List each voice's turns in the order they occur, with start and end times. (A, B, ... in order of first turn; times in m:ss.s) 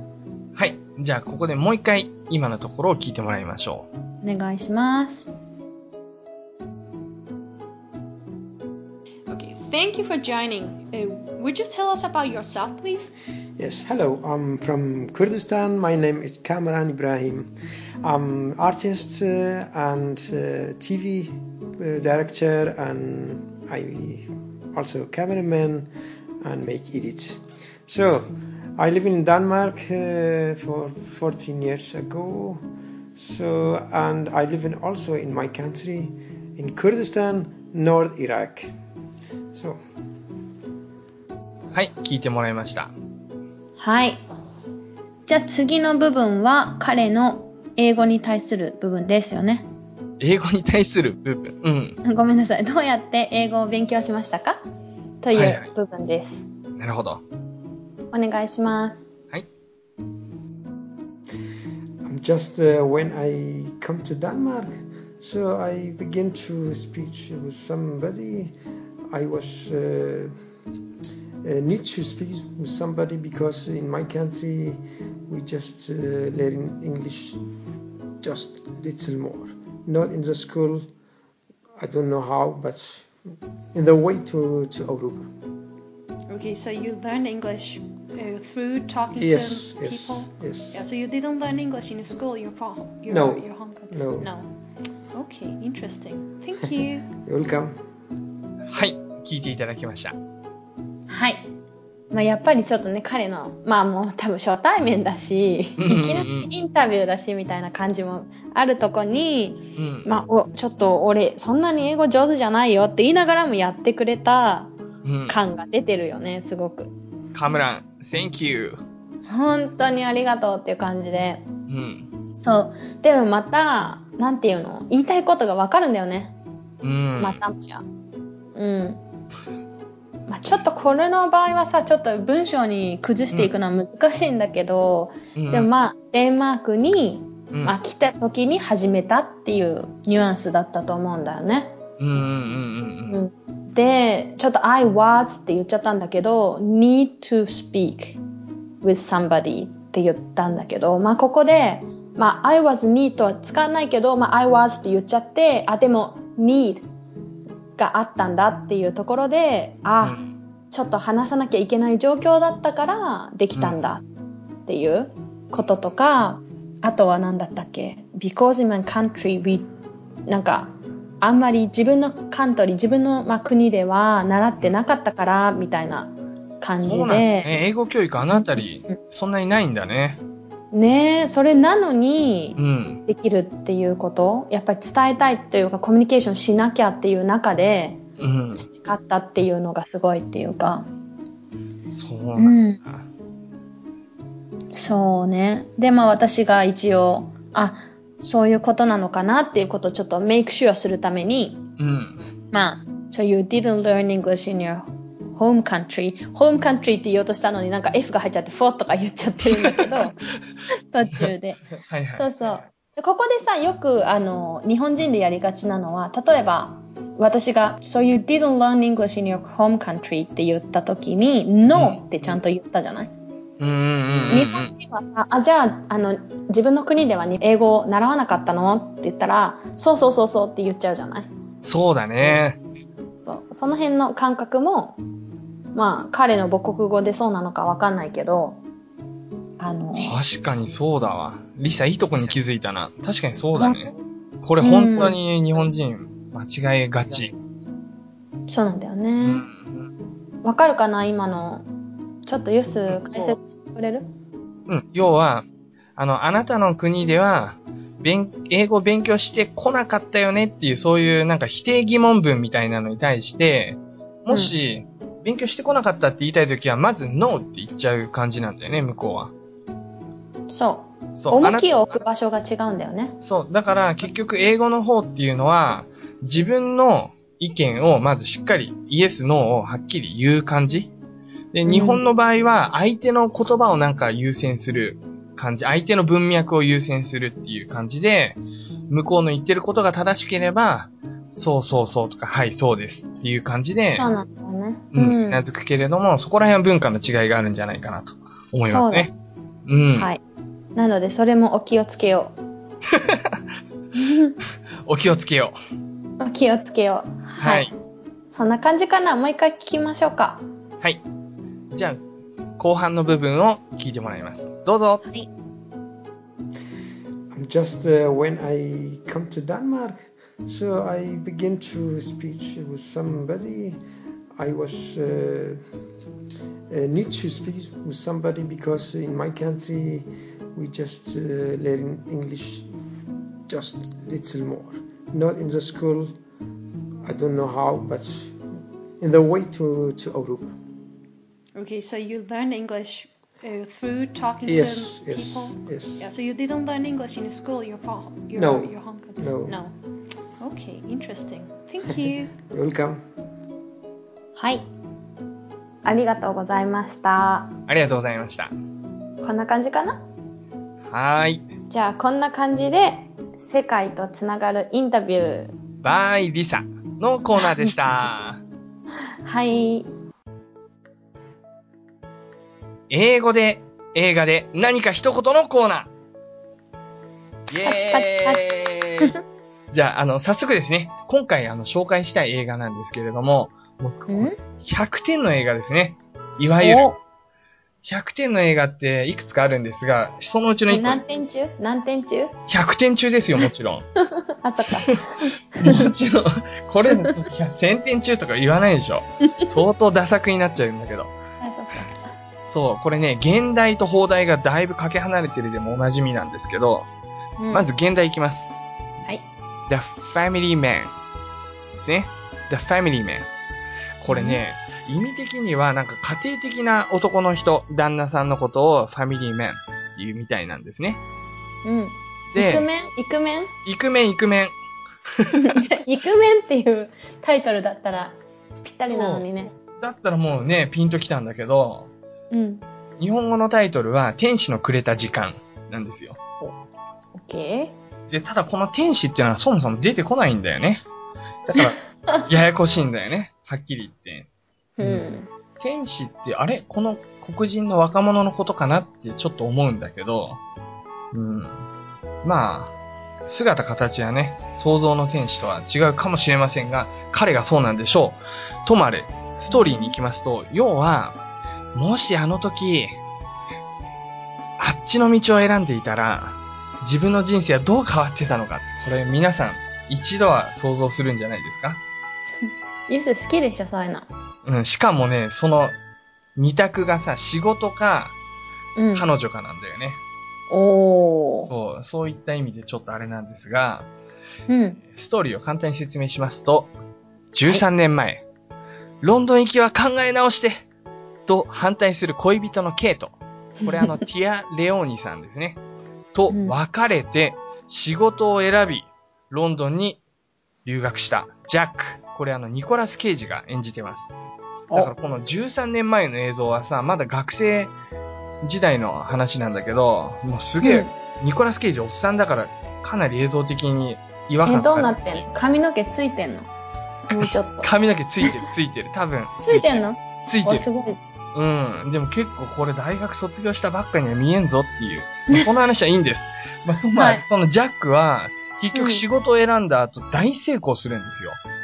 0:00.6-0:03.9 A
0:04.2-0:05.3 B
0:09.3-0:13.1 C
0:13.6-0:17.5 D
0:18.0-0:25.9 D
0:26.4-0:32.6 D
0:33.2-0:38.7 D
0:39.5-0:39.8 D
0:41.7-0:42.9 A
0:43.8-0:44.2 B
0:45.3-0:49.7 B
0:50.2-0:52.0 A
0:52.0-0:54.6 B
0:55.2-0:56.4 B
0:55.3-0:55.7 A
0:56.8-0:57.2 A
0:58.1-0:59.0 B
1:02.0-1:08.5 D
1:09.1-1:10.4 D
1:11.4-1:17.4 D
1:18.2-1:20.9 D
1:21.8-1:23.1 D
1:23.7-1:25.3 D
1:26.3-1:34.3 C
1:29.2-1:30.8 D
1:33.1-1:34.3 D
1:35.1-1:37.1 C
1:37.2-1:37.8 D
1:38.7-1:40.2 A
1:41.1-1:41.5 B
1:42.1-1:54.7 B
1:45.8-1:46.5 A
1:49.8-1:50.1 A
1:55.0-1:55.4 A
1:55.3-1:56.9 B
1:57.3-1:58.8 A
1:59.3-2:01.5 B
2:01.7-2:02.1 A
2:02.3-2:06.4 B
2:06.8-2:07.4 A
2:07.2-2:07.8 B
2:08.6-2:09.0 B
2:10.3-2:21.7 B
2:15.4-2:15.7 A
2:22.0-2:23.2 A
2:23.1-2:28.2 B
2:28.8-2:36.9 B
2:37.8-2:40.2 B
2:40.0-2:40.3 A
2:40.7-2:44.0 B
2:44.7-2:49.7 B
2:50.3-2:57.5 B
2:56.8-3:00.2 A
3:00.7-3:08.0 B
3:02.6-3:03.0 A
3:08.2-3:08.6 A
3:08.6-3:10.9 B
3:11.9-3:13.1 A
3:12.4-3:12.8 B
3:14.7-3:21.7 B
3:21.8-3:22.2 A
3:22.5-3:43.1 B
3:29.6-3:30.0 A
3:31.8-3:32.6 A
3:41.7-3:42.0 A
3:43.6-3:44.7 A
3:44.3-3:51.3 B
3:51.6-3:52.6 A
3:52.1-3:55.0 B
3:55.7-3:58.6 B
3:59.6-4:00.2 B
4:00.0-4:07.3 A
4:03.6-4:03.8 B
4:04.6-4:05.2 B
4:08.5-4:09.4 B
4:09.2-4:09.9 A
4:10.4-4:11.7 B
4:12.3-4:14.1 B
4:12.9-4:13.4 A
4:14.7-4:15.4 A
4:16.0-4:29.3 A
4:30.5-4:33.2 B
4:31.2-4:32.0 A
4:33.2-4:40.9 A
4:41.5-4:54.1 A
4:41.6-4:42.0 B
4:53.9-4:55.4 B
4:54.9-4:59.1 A
4:58.6-4:59.1 B
4:59.7-5:00.1 A
4:59.9-5:00.2 B
5:00.8-5:02.4 B
5:02.9-5:03.4 A
5:04.0-5:04.4 B
5:04.9-5:05.6 A
5:06.2-5:07.7 B
5:07.4-5:07.7 A
5:08.3-5:10.4 B
5:11.7-5:12.0 A
5:12.6-5:15.0 A
5:17.3-5:23.8 D
5:24.4-5:25.6 D
5:26.7-5:32.7 D
5:33.5-5:36.2 D
5:37.0-5:38.4 D
5:39.0-5:40.6 D
5:41.6-5:49.2 C
5:44.4-5:46.1 D
5:48.3-5:49.6 D
5:49.5-5:49.7 B
5:50.4-5:52.3 C
5:52.4-5:53.0 D
5:54.4-5:54.7 B
5:55.8-5:57.6 B
5:57.7-5:58.5 A
5:59.2-6:00.0 B
6:00.9-6:01.5 A
6:01.7-6:05.5 B
6:05.8-6:08.4 A
6:07.4-6:07.7 B
6:09.2-6:09.9 B
6:12.9-6:15.9 A
6:17.5-6:19.2 A
6:17.6-6:19.2 B
6:19.7-6:27.0 A
6:24.1-6:24.4 B
6:26.6-6:27.0 B
6:27.8-6:31.1 A
6:30.7-6:32.3 B
6:32.5-6:33.9 A
6:34.0-6:35.9 B
6:35.6-6:41.1 A
6:41.4-6:42.0 B
6:42.5-6:46.9 A
6:47.4-6:47.7 B
6:47.5-6:48.5 A
6:49.7-6:50.9 A
6:51.8-6:53.3 A
6:54.0-7:01.0 A
6:54.1-6:54.4 B
7:01.6-7:03.5 B
7:02.3-7:02.7 A
7:03.6-7:04.5 A
7:05.2-7:05.6 A
7:05.4-7:09.5 B
7:08.8-7:11.9 A
7:12.3-7:12.6 B
7:13.0-7:16.2 A
7:17.1-7:17.8 B
7:18.1-7:20.8 A
7:21.5-7:24.3 A
7:21.6-7:22.2 B
7:24.8-7:25.3 B
7:25.6-7:30.4 A
7:31.1-7:31.7 A
7:32.2-7:32.7 A
7:33.3-7:41.2 A
7:39.5-7:40.0 B
7:41.8-7:43.0 A
7:44.6-7:51.8 A
7:52.4-7:54.1 B
7:54.4-7:55.8 A
7:56.4-7:58.2 A
7:58.8-7:59.1 B
7:58.9-8:00.0 A
8:00.5-8:01.5 B
8:01.4-8:03.9 A
8:04.5-8:04.8 B
8:04.9-8:06.7 A
8:07.3-8:08.2 A
8:09.0-8:10.6 A
8:11.3-8:15.6 A
8:16.1-8:20.0 A
8:20.6-8:24.1 A
8:24.7-8:27.7 A
8:28.4-8:35.2 A
8:30.6-8:30.9 B
8:34.5-8:36.5 B
8:37.1-8:37.7 B
8:37.2-8:40.6 A
8:39.4-8:41.0 B
8:41.3-8:51.4 A
8:47.0-8:47.2 B
8:48.7-8:49.0 B